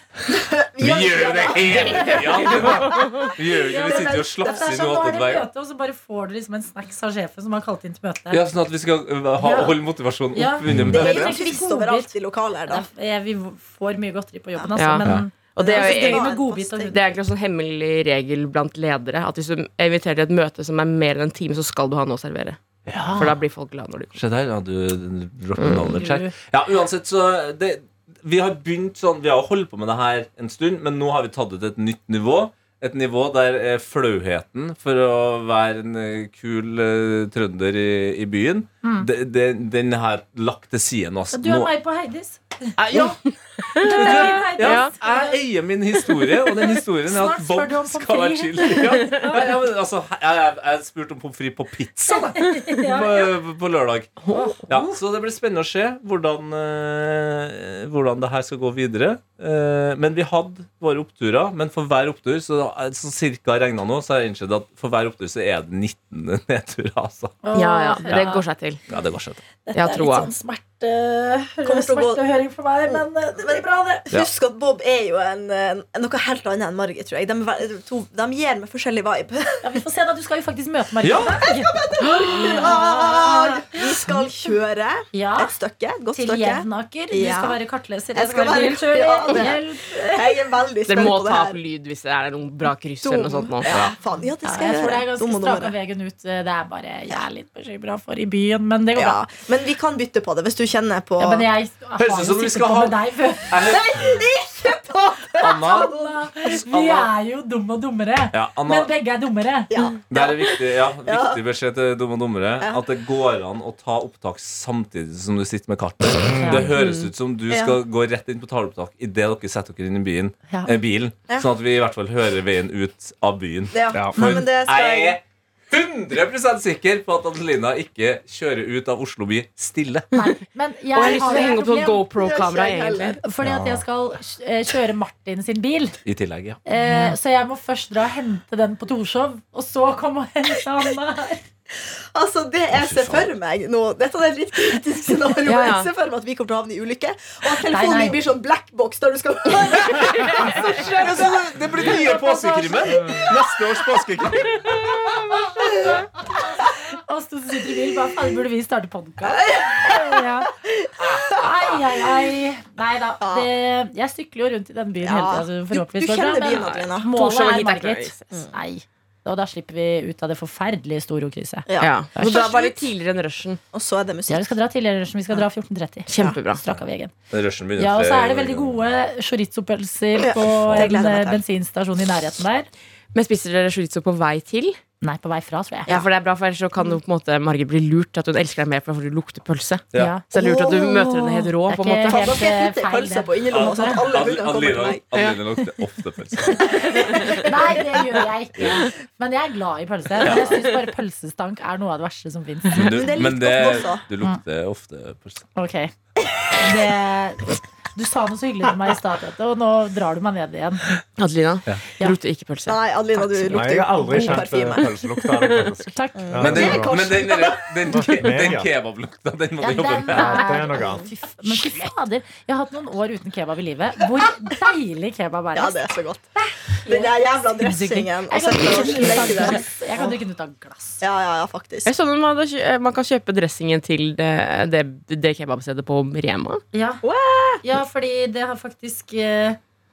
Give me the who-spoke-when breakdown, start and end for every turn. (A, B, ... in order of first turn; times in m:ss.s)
0:00.3-0:04.8 A
0:00.8-0:05.5 B
0:02.9-0:03.3 C
0:03.6-0:08.4 D
0:08.3-0:11.4 B
0:09.4-0:09.8 D
0:10.3-0:12.1 D
0:10.9-0:12.9 A
0:12.7-0:17.0 D
0:14.8-0:16.4 C
0:15.6-0:17.0 A
0:16.9-0:22.6 C
0:22.9-0:23.3 B
0:22.9-0:23.3 D
0:23.2-0:24.2 C
0:24.1-0:41.7 B
0:25.6-0:25.9 C
0:25.8-0:26.3 D
0:38.8-0:39.1 D
0:41.3-0:43.0 D
0:42.8-0:43.2 B
0:43.7-0:45.4 D
0:43.7-1:07.4 B
0:43.8-0:44.9 C
0:47.0-0:49.6 D
0:52.1-0:53.3 D
0:54.2-0:54.6 C
0:54.3-0:54.9 D
1:07.4-1:08.4 D
1:07.5-1:08.8 C
1:08.9-1:09.4 B
1:09.6-1:14.1 D
1:09.7-1:10.3 C
1:11.6-1:12.2 A
1:12.9-1:19.7 A
1:19.6-1:24.3 D
1:21.0-1:21.4 B
1:21.4-1:27.6 A
1:22.0-1:22.6 C
1:25.1-1:25.5 D
1:26.1-1:30.3 D
1:28.1-1:31.6 A
1:30.9-1:33.7 C
1:33.0-1:35.7 A
1:33.6-1:33.9 B
1:34.4-1:39.2 D
1:39.0-1:41.4 A
1:41.2-1:43.6 D
1:42.0-1:44.1 B
1:43.6-1:46.3 A
1:45.4-1:47.1 B
1:45.4-1:49.8 D
1:48.3-1:48.9 B
1:49.7-1:51.4 A
1:50.1-2:10.1 B
1:52.6-1:52.8 A
1:56.2-1:56.7 E
1:56.4-1:56.7 D
1:57.5-1:57.8 A
2:00.5-2:00.7 D
2:03.7-2:05.2 A
2:03.9-2:04.2 E
2:10.1-2:12.0 D
2:10.9-2:13.2 C
2:11.0-2:11.6 A
2:12.2-2:13.2 A
2:13.2-2:16.0 D
2:13.4-2:13.8 E
2:16.0-2:16.6 B
2:16.6-2:21.4 D
2:16.8-2:17.2 C
2:22.1-2:31.2 A
2:22.7-2:23.3 B
2:25.4-2:25.9 C
2:27.7-2:28.2 D
2:30.1-2:35.2 B
2:31.8-2:33.3 D
2:35.3-2:36.0 D
2:36.9-2:40.5 D
2:39.2-2:41.4 A
2:41.0-2:41.4 B
2:41.3-2:52.5 D
2:43.2-2:43.5 A
2:45.0-2:47.1 A
2:46.5-2:48.4 C
2:51.7-2:52.9 A
2:51.8-2:53.6 C
2:53.7-2:54.5 A
2:54.3-2:57.1 D
2:56.1-2:56.6 C
2:57.3-2:58.8 B
2:57.8-3:02.7 D
3:00.2-3:01.4 A
3:03.1-3:04.8 C
3:05.0-3:05.9 D
3:05.9-3:12.4 C
3:09.9-3:10.2 B
3:09.9-3:11.0 D
3:10.3-3:11.2 A
3:11.6-3:14.0 D
3:12.0-3:15.0 A
3:13.5-3:16.7 B
3:16.6-3:18.1 A
3:17.1-3:17.4 C
3:17.2-3:23.2 D
3:20.2-3:20.6 B
3:22.7-3:25.4 B
3:22.8-3:24.0 A
3:25.6-3:25.9 D
3:26.6-3:30.9 D
3:31.2-3:33.8 C
3:32.7-3:34.9 A
3:33.5-3:37.1 E
3:34.0-3:34.6 D
3:35.9-3:36.8 D
3:36.2-3:37.9 A
3:36.4-3:40.6 B
3:37.9-3:38.7 E
3:39.6-3:45.8 D
3:40.2-3:41.1 E
3:45.5-3:50.1 A
3:46.4-3:51.0 D
3:51.0-3:51.9 A
3:51.8-3:56.6 C
3:56.7-3:57.0 D
3:57.0-3:57.6 A
3:57.6-3:59.6 D